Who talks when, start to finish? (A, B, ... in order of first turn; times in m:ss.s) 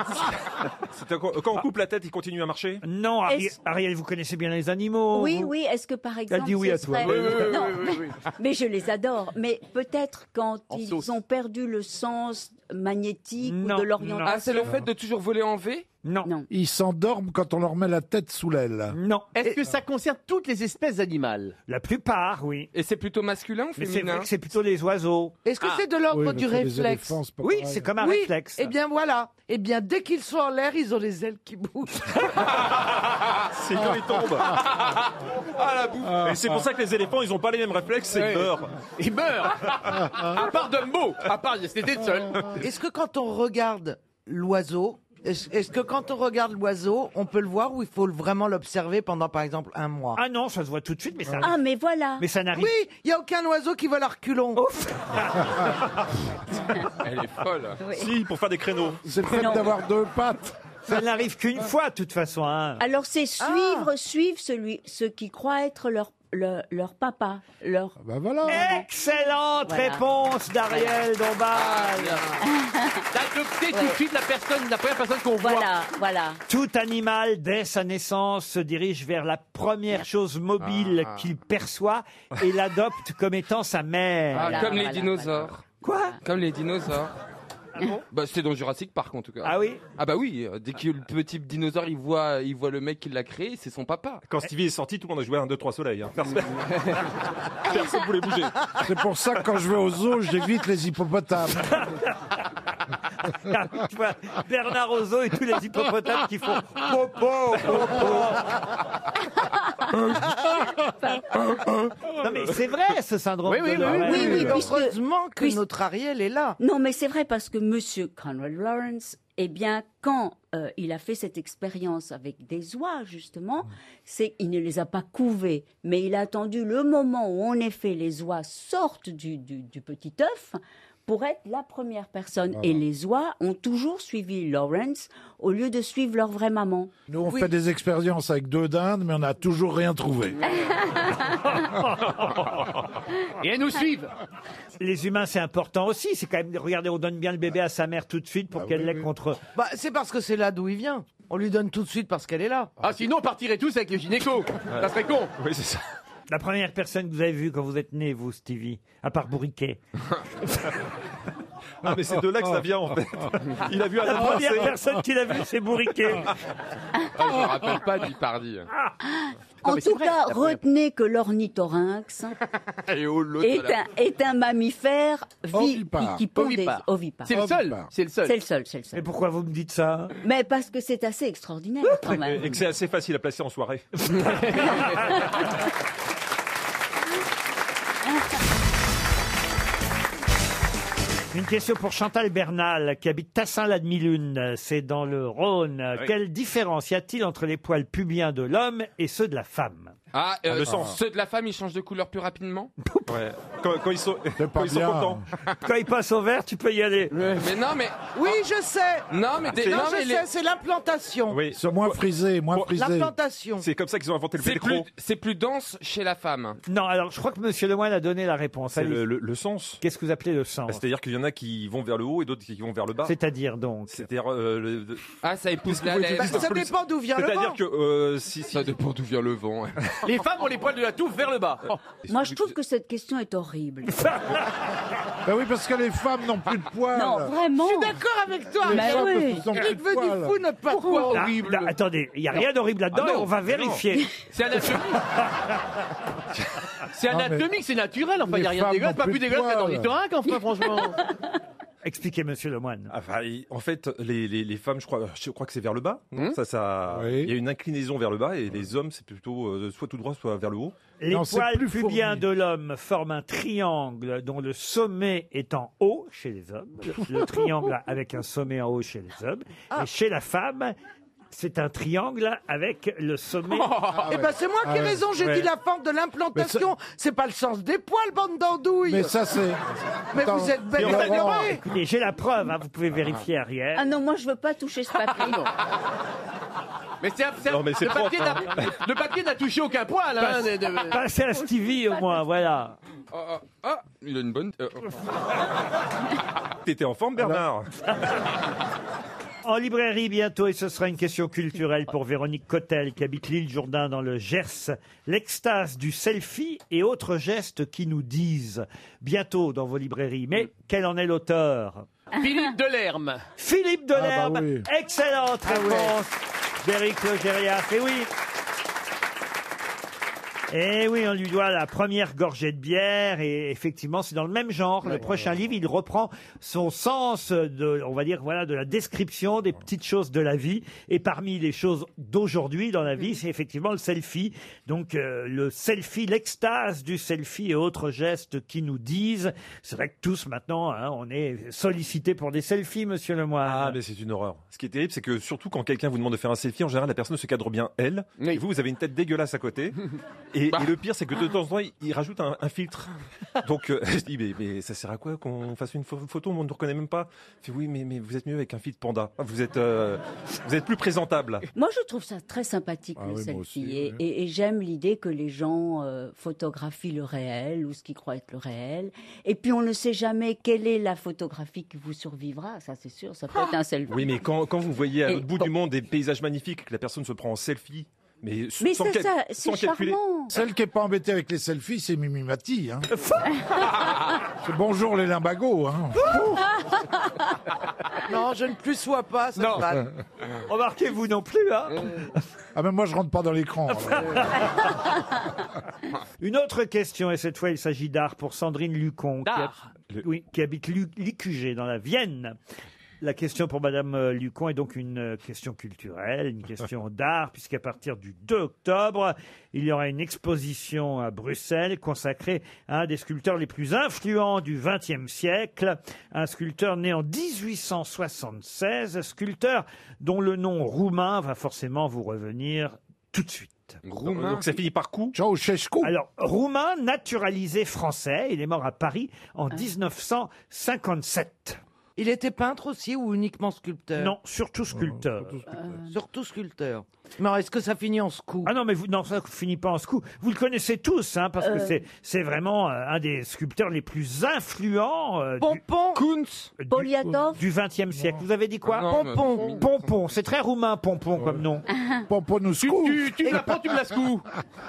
0:00.9-0:02.8 A
0:02.8-0:05.5 B
0:03.3-0:03.5 C
0:05.1-0:14.7 C
0:06.3-0:07.5 B
0:07.0-0:08.2 D
0:10.7-0:11.1 D
0:13.4-0:14.5 B
0:14.2-0:15.9 E
0:16.0-0:16.3 B
0:16.2-0:16.5 C
0:16.5-0:19.0 F
0:18.9-0:19.3 B
0:19.3-0:21.6 D
0:21.7-0:22.7 B
0:22.7-0:24.3 E
0:23.8-0:25.4 B
0:25.4-0:27.2 G
0:26.1-0:27.9 F
0:27.4-0:28.7 B
0:28.0-0:32.4 G
0:33.5-0:34.6 A
0:35.6-0:36.2 E
0:36.0-0:36.6 F
0:36.2-0:38.8 A
0:38.1-0:42.5 D
0:42.5-0:50.2 G
0:50.2-0:51.6 B
0:51.4-0:52.2 C
0:52.2-0:52.7 B
0:52.5-0:54.6 G
0:54.6-0:55.6 B
0:57.0-0:57.8 E
0:57.8-0:58.1 C
0:57.9-0:59.2 A
0:59.0-1:00.6 F
0:59.3-0:59.7 C
1:00.9-1:02.8 B
1:02.8-1:08.9 C
1:03.4-1:03.9 G
1:08.0-1:08.6 F
1:08.5-1:12.2 B
1:09.6-1:10.0 C
1:10.7-1:11.0 C
1:11.5-1:12.4 E
1:12.4-1:13.1 C
1:13.1-1:15.7 D
1:13.7-1:14.0 C
1:15.4-1:16.4 C
1:16.5-1:24.8 B
1:20.6-1:21.3 E
1:24.3-1:25.6 C
1:24.3-1:25.6 E
1:25.8-1:26.2 B
1:26.2-1:27.1 E
1:28.1-1:34.2 E
1:29.4-1:29.8 B
1:34.2-1:38.8 A
1:38.8-1:41.8 F
1:43.2-1:48.5 B
1:51.1-1:51.5 C
1:52.1-1:54.6 B
1:53.4-1:54.6 D
1:53.8-1:56.6 G
1:53.9-1:55.6 C
1:56.6-2:16.9 C
2:12.6-2:12.8 F
2:17.1-2:20.4 F
2:20.4-2:21.7 C
2:21.5-2:22.4 B
2:23.4-2:24.1 D
2:24.8-2:29.4 B
2:28.5-2:29.1 F
2:29.6-2:32.8 G
2:32.8-2:35.3 D
2:34.7-2:35.8 A
2:36.3-2:39.8 B
2:41.8-2:44.8 A
2:44.0-2:46.3 B
2:47.1-2:48.7 E
2:49.0-2:52.4 C
2:49.6-2:50.6 D
2:52.9-2:53.8 E
2:53.4-2:57.5 C
2:55.5-2:56.3 F
2:56.4-2:58.4 D
2:57.3-2:57.9 F
2:58.2-2:59.0 C
2:58.9-3:00.2 B
3:00.2-3:02.6 C
3:02.1-3:04.4 A
3:05.1-3:05.4 C
3:11.3-3:20.0 B
3:20.1-3:22.7 E
3:20.5-3:21.0 A
3:22.8-3:23.1 B
3:23.1-3:25.2 A
3:24.4-3:25.2 F
3:25.6-3:27.2 B
3:27.2-3:28.4 E
3:28.1-3:31.4 G
3:29.1-3:30.2 E
3:29.5-3:29.9 A
3:31.3-3:32.0 A
3:31.5-3:33.1 F
3:32.7-3:33.7 G
3:33.6-3:34.9 A
3:34.4-3:36.6 E
3:36.7-3:39.1 B
3:38.7-3:39.8 A
3:39.8-3:40.8 B
3:40.7-3:43.1 A
3:43.0-3:44.0 B
3:43.9-3:48.8 A
3:45.2-3:46.5 E
3:46.2-3:47.6 G
3:48.5-3:49.9 E
3:50.0-3:51.9 D
3:52.1-3:54.1 C
3:54.0-3:54.3 B
3:55.2-3:57.4 F
3:56.9-3:58.0 C
3:57.6-4:01.2 G
3:58.6-3:59.6 C
3:58.6-4:00.4 F
4:00.7-4:01.2 C
4:00.8-4:01.7 D
4:01.1-4:04.1 B
4:03.0-4:03.8 A
4:04.3-4:05.2 D
4:06.9-4:11.0 D
4:07.1-4:07.5 F
4:08.2-4:09.9 F
4:11.8-4:12.9 B
4:12.9-4:20.8 A
4:16.9-4:17.4 F
4:21.0-4:30.7 B
4:21.1-4:22.3 F
4:31.3-4:33.8 B
4:33.5-4:34.0 E
4:33.9-4:35.0 F
4:34.0-4:39.1 G
4:35.2-4:35.5 A
4:36.3-4:36.7 F
4:38.9-4:41.5 F
4:40.1-4:41.6 G
4:40.8-4:41.3 A
4:40.8-4:43.9 B
4:43.7-4:45.5 C
4:45.1-4:45.5 D
4:47.0-4:51.0 D
4:47.4-4:48.7 A
4:50.2-4:52.8 B
4:53.1-4:54.9 E
4:56.6-4:57.7 A
4:59.4-5:11.9 B
5:12.1-5:13.2 D
5:13.4-5:18.1 B
5:13.9-5:14.7 F
5:15.5-5:16.0 G
5:20.5-5:43.8 B
5:24.9-5:25.2 F
5:43.4-5:49.8 A
5:50.3-6:01.4 A
6:01.5-6:14.3 C
6:03.0-6:04.0 F
6:13.9-6:20.0 A
6:15.0-6:15.5 C
6:18.6-6:20.4 C
6:20.3-6:22.9 F
6:22.9-6:23.3 B
6:24.4-6:26.2 F
6:26.0-6:26.4 B
6:28.0-6:29.9 G
6:29.4-6:29.6 B
6:30.5-6:32.2 B
6:32.5-6:34.4 F
6:33.7-6:34.7 B
6:36.2-6:42.4 B
6:39.2-6:39.6 D
6:43.0-7:03.8 B
7:03.8-7:04.6 E
7:04.0-7:05.2 A
7:05.1-7:05.9 F
7:05.8-7:11.6 B
7:12.0-7:14.1 G
7:14.0-7:15.4 B
7:14.7-7:15.7 F
7:15.5-7:16.0 C
7:15.9-7:18.5 G
7:18.4-7:25.6 B
7:21.4-7:21.8 C
7:25.4-7:26.0 G
7:25.9-7:26.5 E
7:26.6-7:29.0 B
7:26.7-7:27.4 C
7:28.0-7:28.2 F
7:28.6-7:29.8 E
7:28.9-7:29.6 G
7:29.6-7:31.6 B
7:31.2-7:31.4 F
7:31.7-7:32.0 C
7:32.1-7:33.6 F
7:32.6-7:34.3 D